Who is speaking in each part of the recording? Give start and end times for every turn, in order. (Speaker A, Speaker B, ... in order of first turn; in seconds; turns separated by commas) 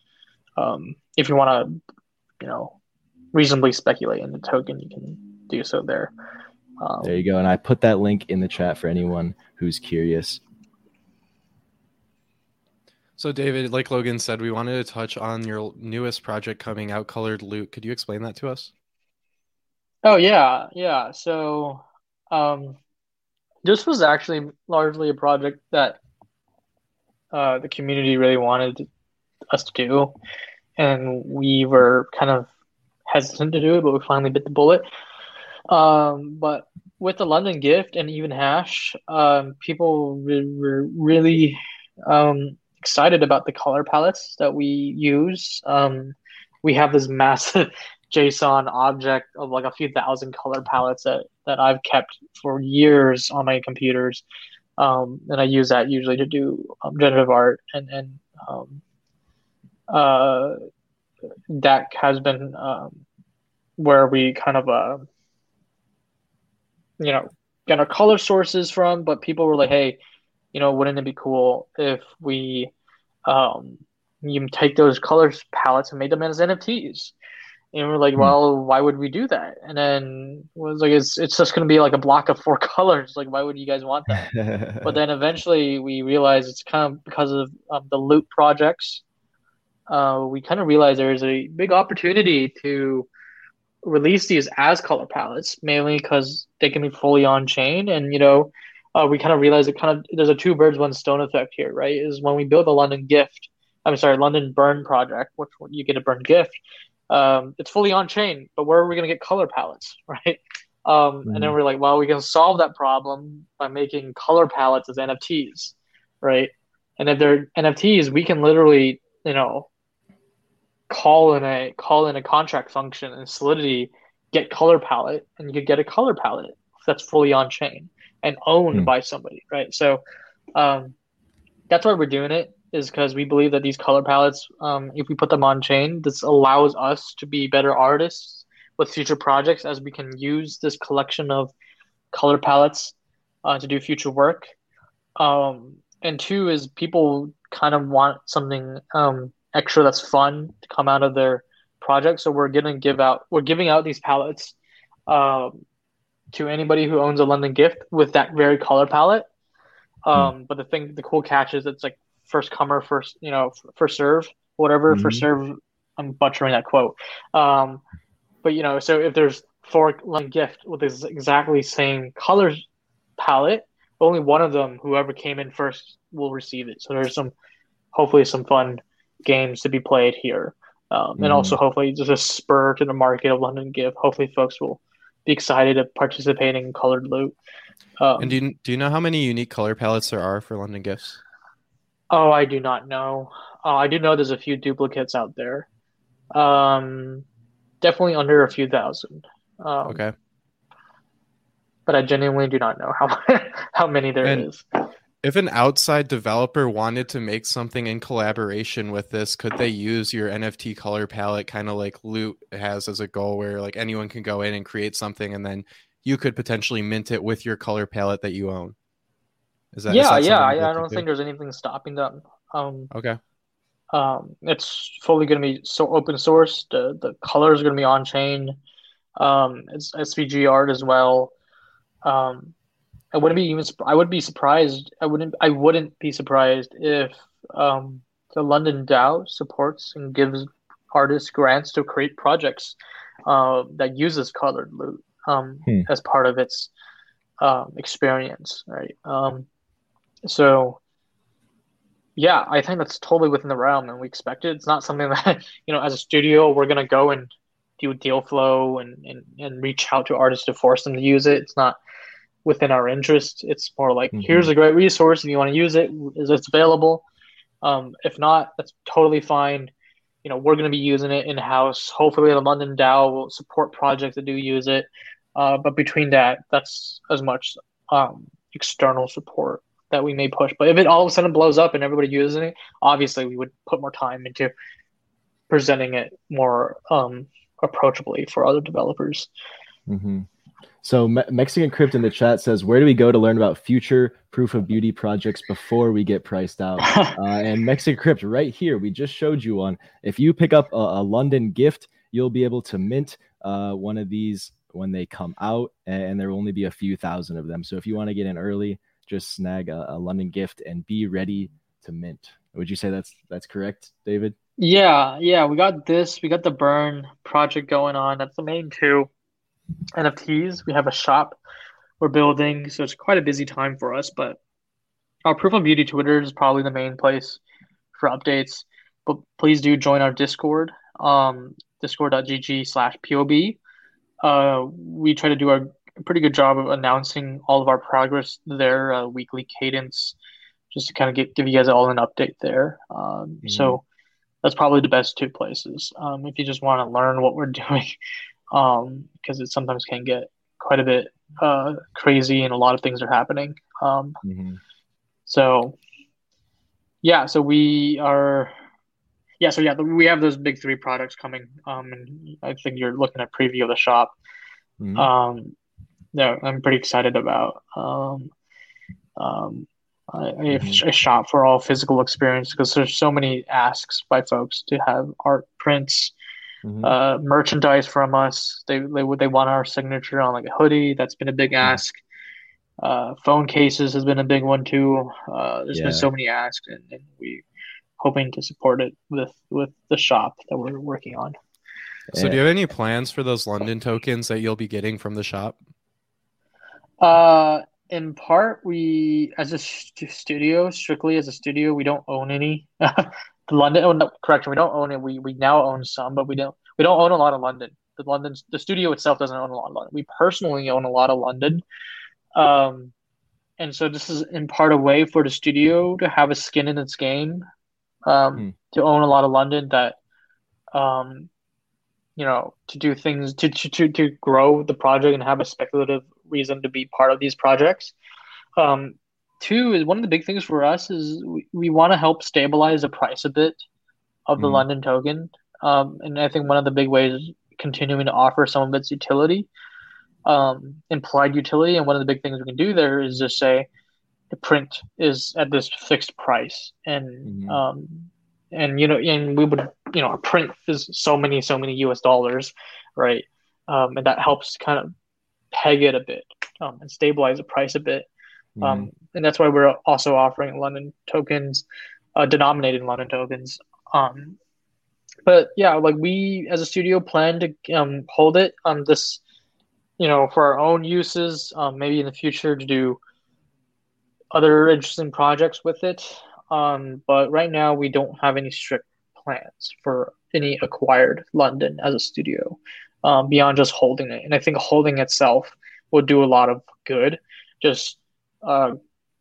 Speaker A: 0.6-1.8, Speaker A: 2.4-2.8, Speaker A: 3.3-6.1, Speaker A: 6.8-7.2, Speaker B: 7.0-10.4, Speaker C: 13.2-18.7, Speaker A: 20.0-22.8, Speaker A: 23.6-26.0, Speaker A: 27.3-28.9, Speaker A: 29.5-30.1, Speaker A: 30.8-32.5, Speaker A: 33.1-34.9, Speaker A: 35.7-54.2, Speaker A: 54.8-58.8, Speaker A: 59.9-60.6, Speaker A: 61.5-63.0, Speaker A: 63.8-65.0, Speaker A: 67.0-70.0, Speaker A: 70.5-72.7, Speaker A: 73.3-77.1, Speaker A: 77.7-84.2, Speaker B: 84.1-85.0, Speaker A: 84.8-89.0, Speaker A: 89.9-93.1, Speaker A: 93.8-106.6, Speaker A: 107.1-119.7, Speaker B: 111.3-111.5, Speaker A: 120.9-130.0, Speaker A: 130.6-130.9, Speaker A: 131.7-141.5, Speaker A: 142.1-144.5, Speaker A: 145.2-154.6, Speaker A: 155.1-155.6, Speaker A: 156.3-159.3, Speaker A: 160.1-167.8, Speaker B: 164.9-165.3, Speaker A: 168.4-172.6, Speaker A: 173.2-177.3, Speaker A: 177.9-187.3, Speaker B: 181.2-181.6, Speaker A: 188.0-188.4, Speaker C: 188.2-191.2, Speaker A: 192.1-195.7, Speaker A: 196.3-197.2, Speaker A: 197.8-200.0, Speaker C: 199.9-200.1, Speaker A: 201.9-204.6, Speaker C: 205.2-218.8, Speaker C: 219.7-221.0, Speaker A: 219.9-222.9, Speaker C: 222.9-223.2, Speaker A: 223.9-228.6, Speaker A: 229.2-231.3, Speaker A: 232.0-232.5, Speaker A: 233.1-242.8, Speaker A: 243.3-246.7, Speaker A: 247.4-249.5, Speaker A: 250.2-250.8, Speaker A: 252.2-261.8, Speaker A: 262.4-267.0, Speaker B: 264.1-264.5, Speaker A: 267.6-269.7, Speaker A: 270.2-284.5, Speaker A: 285.5-289.3, Speaker B: 289.9-290.3, Speaker B: 290.8-314.4, Speaker A: 296.8-297.1, Speaker A: 314.6-319.1, Speaker A: 320.0-321.4, Speaker A: 322.0-324.4, Speaker A: 325.2-327.4, Speaker A: 327.9-333.6, Speaker A: 334.2-340.2, Speaker A: 340.7-343.8, Speaker B: 343.4-343.8, Speaker A: 344.4-347.9, Speaker A: 348.5-354.2, Speaker B: 354.2-354.6, Speaker A: 355.3-355.8, Speaker A: 357.0-358.5, Speaker A: 359.4-364.1, Speaker B: 364.8-365.1, Speaker A: 365.0-365.5, Speaker A: 366.1-368.3, Speaker A: 369.2-376.1, Speaker B: 370.5-370.8, Speaker B: 376.6-376.9, Speaker A: 376.8-382.0, Speaker A: 382.8-387.4, Speaker B: 385.7-386.1, Speaker A: 388.0-391.4, Speaker B: 392.1-392.4, Speaker C: 392.1-395.6, Speaker A: 397.0-411.6, Speaker A: 412.4-412.9, Speaker A: 413.6-417.4, Speaker A: 418.1-420.0, Speaker A: 420.7-421.3, Speaker A: 422.2-427.9, Speaker A: 428.6-433.6, Speaker A: 434.3-439.5, Speaker B: 434.4-434.6, Speaker A: 440.3-443.7, Speaker A: 444.3-454.9, Speaker B: 447.2-447.6, Speaker A: 455.5-458.1, Speaker B: 458.6-458.9, Speaker A: 458.6-461.6, Speaker A: 462.2-464.4, Speaker A: 465.3-469.2, Speaker A: 470.0-473.0, Speaker A: 474.3-488.8